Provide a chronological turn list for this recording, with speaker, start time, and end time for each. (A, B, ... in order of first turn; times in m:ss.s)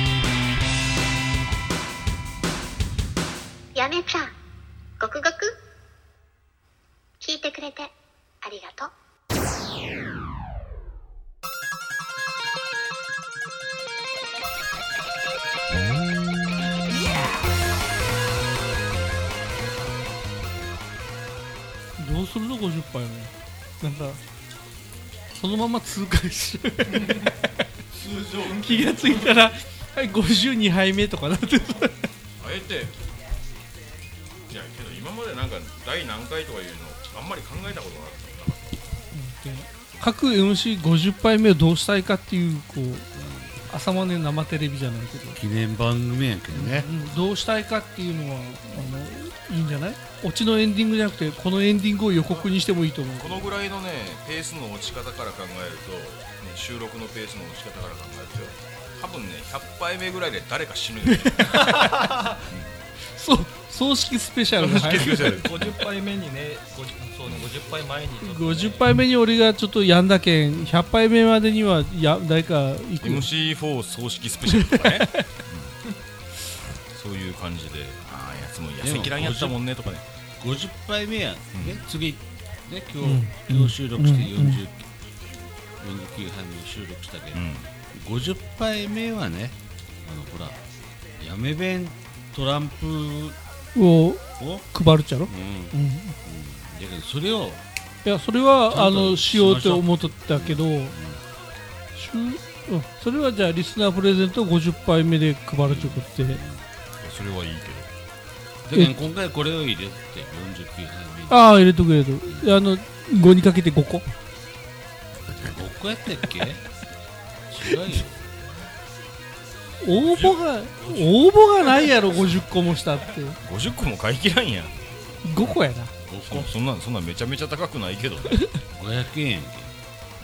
0:03.8-0:04.3 A
0:05.0-0:05.5 A
0:07.2-0:07.9 A
0:08.4-0:08.9 A
0:22.0-0:24.2 B
0:25.3-0:27.3 B
0:28.0-0:29.3 C
0:28.3-0:32.0 B
0:32.4-0:33.0 C
0:34.5-0:38.8 C
0:39.1-0:43.1 B
0:43.1-0:43.5 D
0:43.7-0:45.4 B
0:45.4-0:46.9 D
0:46.5-0:53.5 B
0:53.1-1:02.7 C
1:01.0-1:02.1 B
1:03.1-1:05.4 B
1:04.6-1:05.8 C
1:05.0-1:08.8 E
1:08.2-1:13.2 B
1:13.0-1:15.8 C
1:14.5-1:15.3 B
1:16.9-1:20.0 C
1:18.8-1:19.6 D
1:20.4-1:24.9 D
1:23.0-1:24.6 B
1:25.8-1:30.6 D
1:27.3-1:27.7 C
1:31.2-1:33.4 D
1:33.7-1:36.2 B
1:34.4-1:34.6 D
1:35.2-1:37.6 D
1:38.0-1:41.0 B
1:38.7-1:41.2 D
1:41.9-1:46.4 B
1:45.6-1:46.6 D
1:47.0-1:47.9 C
1:48.7-1:51.4 D
1:51.3-1:54.0 B
1:52.2-1:52.5 D
1:55.3-1:56.6 D
1:57.5-1:58.6 D
1:59.8-2:03.4 B
2:03.4-2:05.2 C
2:05.2-2:05.9 B
2:06.0-2:06.5 D
2:06.2-2:08.5 C
2:08.7-2:09.7 D